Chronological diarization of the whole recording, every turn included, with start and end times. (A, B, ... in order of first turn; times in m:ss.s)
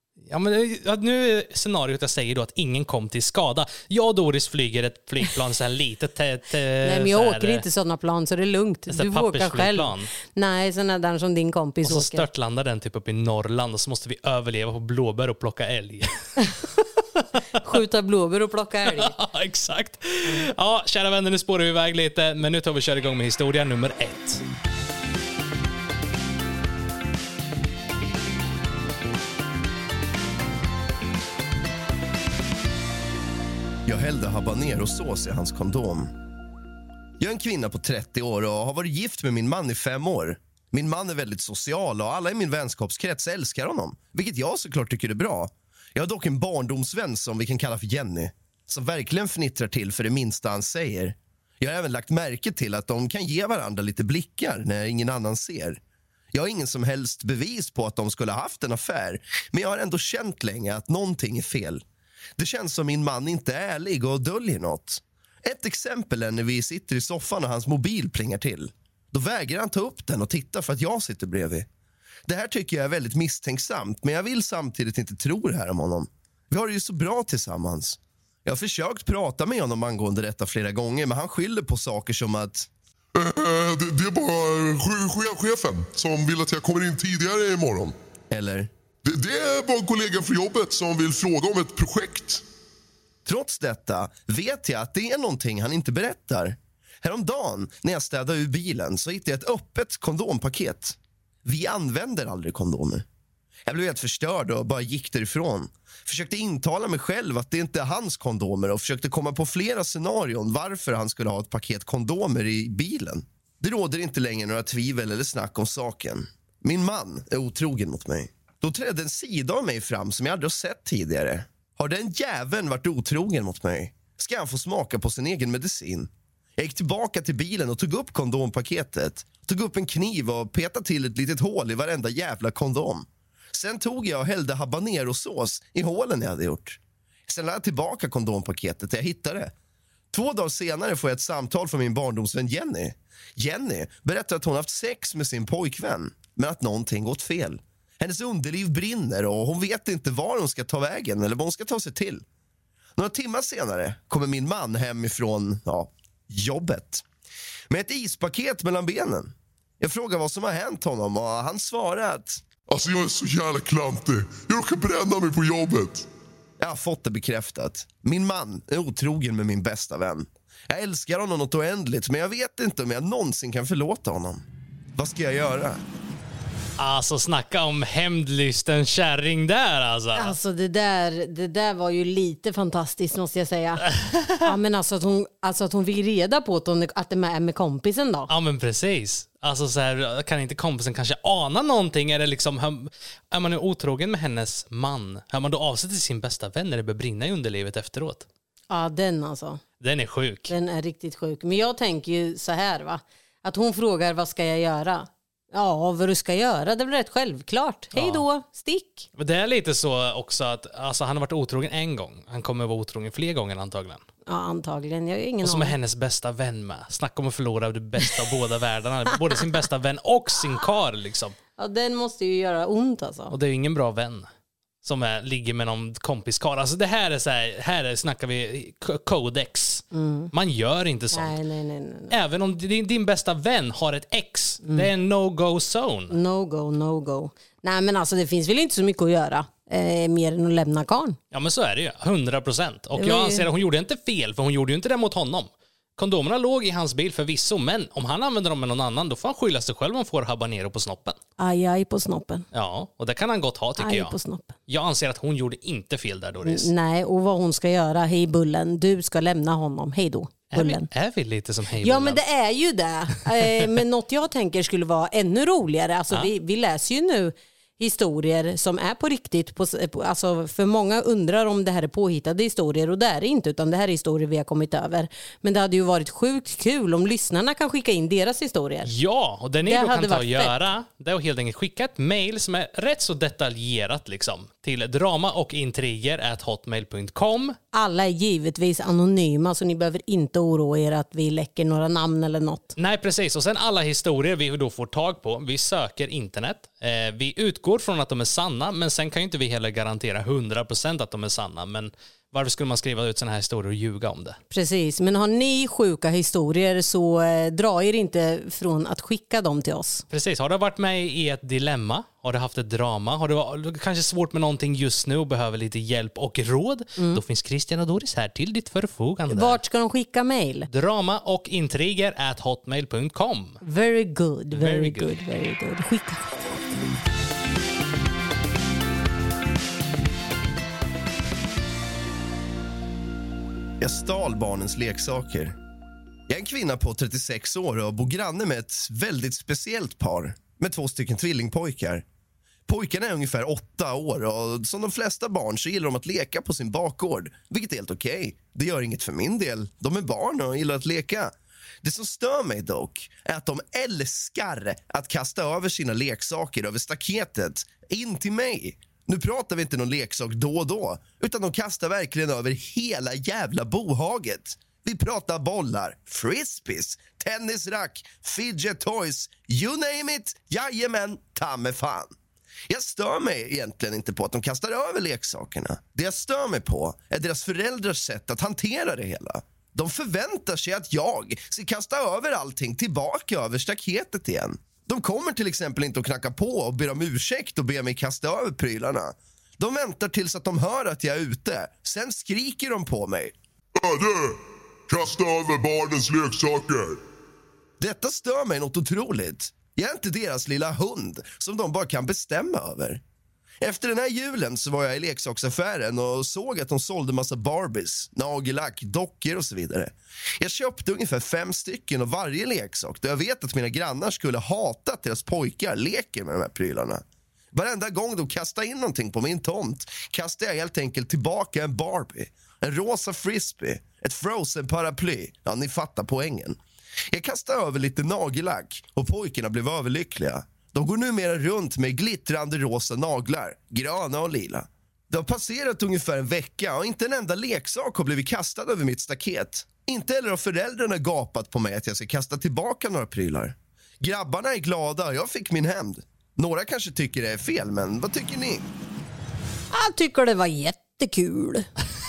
0:00.3-0:07.6 A
0:06.8-0:12.3 B
0:08.9-0:10.1 A
0:11.8-0:16.5 A
0:17.2-0:17.6 A
0:17.6-0:19.1 B
0:18.8-0:24.4 A
0:33.8-0:36.1 C
0:37.2-0:55.8 C
0:56.3-1:01.8 C
1:02.4-1:11.7 C
1:12.3-1:22.7 C
1:23.1-1:27.9 D
1:28.3-1:28.7 C
1:29.0-1:32.4 D
1:33.2-1:43.0 C
1:43.6-2:19.5 C
2:20.1-2:32.2 C
2:33.0-2:37.0 C
2:37.7-2:42.4 C
2:42.7-2:46.1 D
2:46.6-2:54.4 C
2:55.0-2:55.8 C
2:56.8-3:00.4 A
3:00.1-3:08.3 B
3:03.9-3:04.4 A
3:08.3-3:18.2 A
3:18.7-3:19.6 B
3:19.8-3:20.5 A
3:20.5-3:29.1 B
3:27.9-3:28.2 A
3:29.2-3:34.0 A
3:34.3-3:35.7 B
3:35.4-3:41.4 A
3:41.6-3:43.3 B
3:43.3-3:44.3 A
3:44.8-3:51.4 A
3:49.9-3:50.3 B
3:51.1-3:52.1 B
3:52.1-3:56.1 A
3:56.1-4:01.2 B
4:01.3-4:11.2 A
4:03.0-4:03.4 B
4:11.4-4:12.4 B
4:12.5-4:14.1 A
4:13.8-4:14.5 B
4:14.7-4:16.7 A
4:16.4-4:20.9 B
4:20.5-4:22.2 A
4:21.8-4:38.9 B
4:38.8-4:47.6 A
4:39.6-4:40.6 B
4:47.7-4:52.7 B
4:52.8-5:04.4 A
5:04.5-5:10.0 B
5:10.1-5:19.6 A
5:17.0-5:17.2 B
5:19.3-5:20.7 B
5:20.7-5:23.6 A
5:23.6-5:26.9 B
5:24.5-5:25.1 A
5:33.8-5:35.6 C
5:36.3-5:42.0 C
5:42.7-6:12.1 C
6:12.7-6:33.3 C
6:33.8-6:37.0 D
6:37.8-6:43.0 C
6:43.6-7:06.6 C
7:07.1-7:28.6 C
7:29.7-7:31.7 B